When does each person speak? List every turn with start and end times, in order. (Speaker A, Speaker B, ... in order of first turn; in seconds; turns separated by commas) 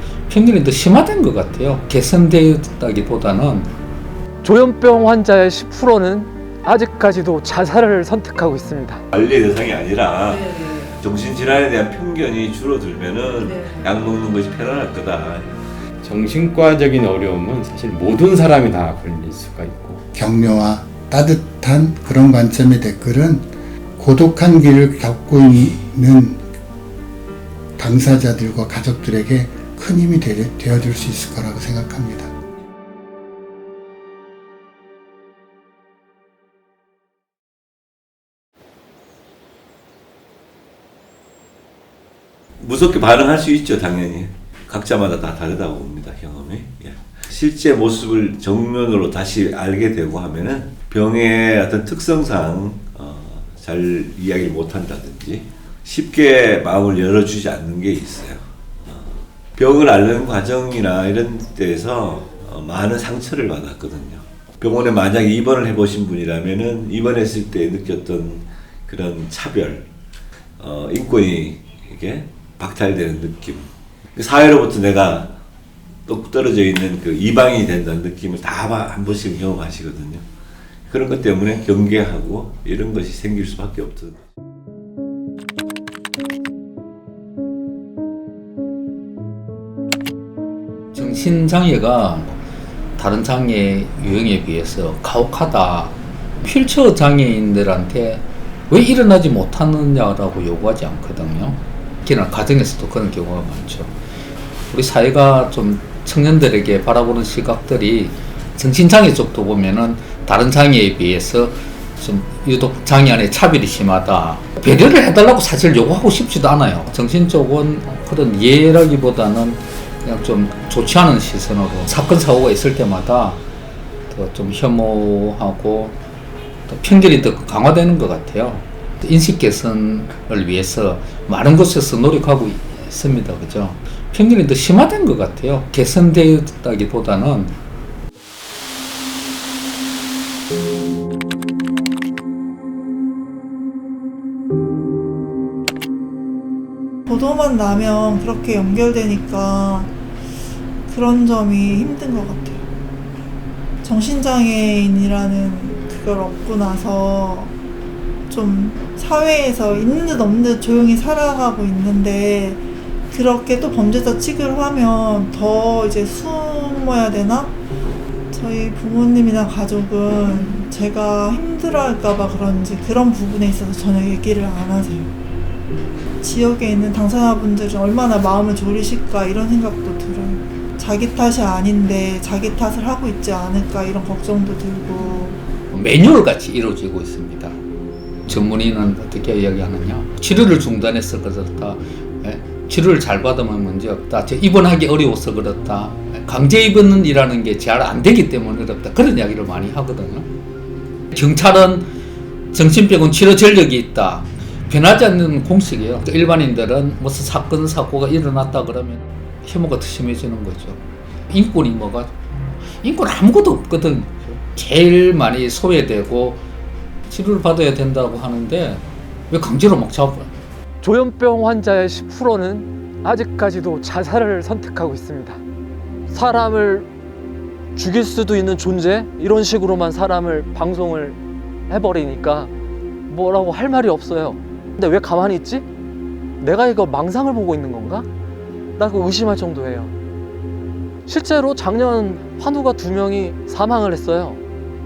Speaker A: 0.3-3.7, Speaker B: 4.4-9.0, Speaker C: 9.1-15.6, Speaker D: 16.0-20.0, Speaker E: 20.1-23.5, Speaker E: 24.0-26.4, Speaker E: 27.8-32.3, Speaker C: 42.6-69.9, Speaker C: 70.6-75.4, Speaker C: 76.0-80.2, Speaker C: 80.9-84.2, Speaker A: 90.9-92.4, Speaker A: 93.0-103.9, Speaker A: 104.7-123.4, Speaker A: 124.1-126.0, Speaker A: 126.7-137.5, Speaker F: 147.1-149.9, Speaker F: 150.8-152.6, Speaker F: 153.8-157.5, Speaker F: 158.3-167.6, Speaker F: 168.3-175.1, Speaker F: 176.2-185.4, Speaker A: 185.7-187.6, Speaker A: 188.2-200.3, Speaker A: 201.1-201.9, Speaker A: 202.5-216.4, Speaker A: 217.1-220.3, Speaker B: 220.8-225.4, Speaker B: 226.1-226.9, Speaker B: 227.7-231.2, Speaker B: 231.7-232.5, Speaker B: 233.1-235.7, Speaker B: 236.4-238.1, Speaker B: 238.8-239.9, Speaker B: 241.1-244.4